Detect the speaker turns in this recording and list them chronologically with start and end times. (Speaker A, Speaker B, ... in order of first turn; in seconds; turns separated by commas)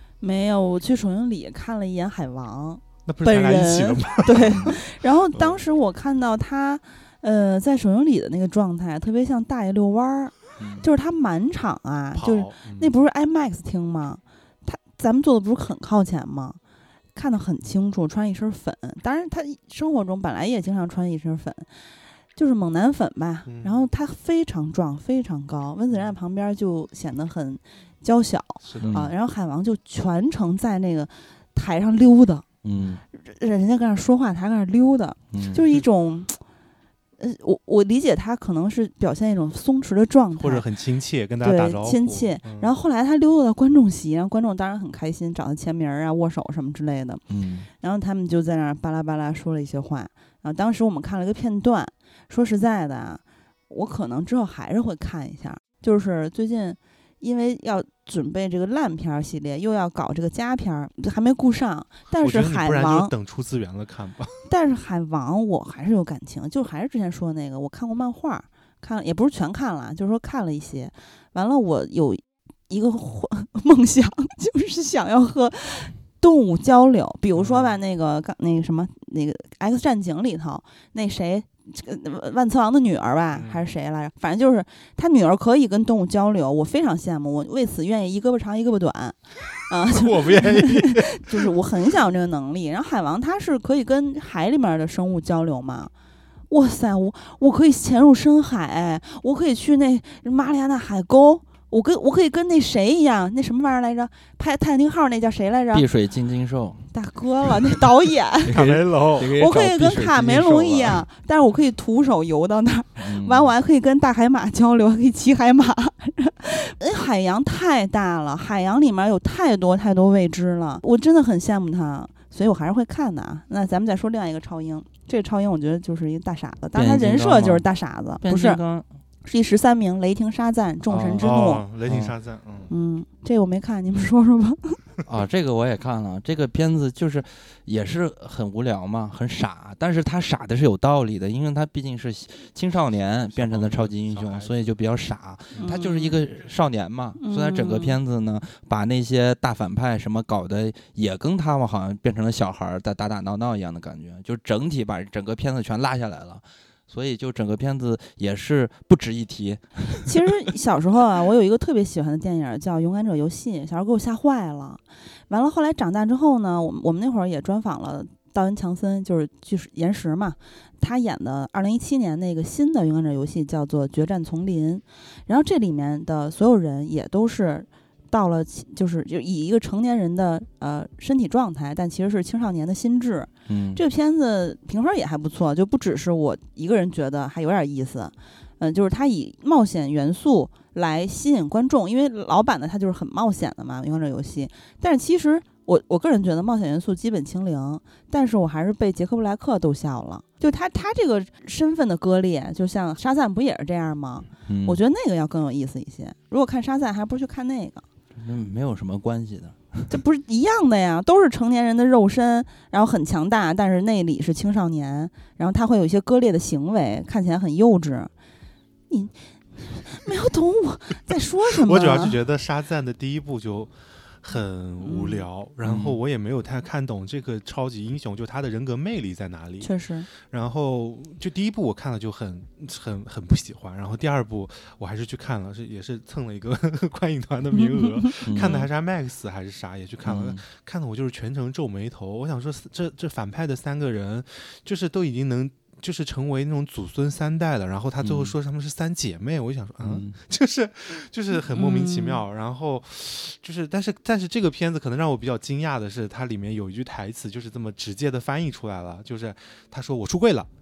Speaker A: 0.2-16.6, Speaker B: 3.0-4.8, Speaker B: 5.3-5.6, Speaker C: 10.6-10.9, Speaker B: 12.1-12.9, Speaker A: 17.1-21.7, Speaker A: 22.4-32.4, Speaker B: 23.4-23.8, Speaker B: 28.6-29.1, Speaker C: 28.8-29.1, Speaker C: 32.6-33.0, Speaker A: 33.2-36.4, Speaker C: 35.3-35.6, Speaker A: 37.2-40.6, Speaker B: 40.4-42.7, Speaker A: 41.4-47.2, Speaker C: 47.3-47.7, Speaker A: 47.8-63.1, Speaker B: 62.2-64.3, Speaker A: 64.5-95.9, Speaker B: 77.3-77.8, Speaker B: 83.3-83.6, Speaker B: 89.9-91.5, Speaker A: 96.5-105.8, Speaker C: 105.7-106.9, Speaker A: 106.9-108.6, Speaker C: 108.4-111.0, Speaker B: 108.5-109.3, Speaker A: 109.2-128.6, Speaker C: 113.0-113.5, Speaker C: 126.7-127.6, Speaker C: 128.2-128.8, Speaker A: 129.2-131.6, Speaker C: 130.9-131.3, Speaker B: 131.2-132.7, Speaker C: 131.8-132.1, Speaker A: 132.7-134.8, Speaker C: 135.1-160.0, Speaker B: 143.4-144.5, Speaker A: 145.6-146.2, Speaker A: 147.2-148.0, Speaker A: 160.0-207.8, Speaker C: 183.5-183.8, Speaker C: 204.4-204.8, Speaker C: 208.2-209.9, Speaker A: 209.9-218.1, Speaker A: 218.9-222.2, Speaker B: 221.5-229.7, Speaker A: 224.8-225.2, Speaker C: 225.6-226.0, Speaker A: 229.6-230.1, Speaker B: 230.2-260.5, Speaker A: 237.5-238.6, Speaker C: 238.2-238.7, Speaker C: 240.0-240.4, Speaker C: 248.0-248.3, Speaker C: 249.8-250.2, Speaker A: 251.5-252.2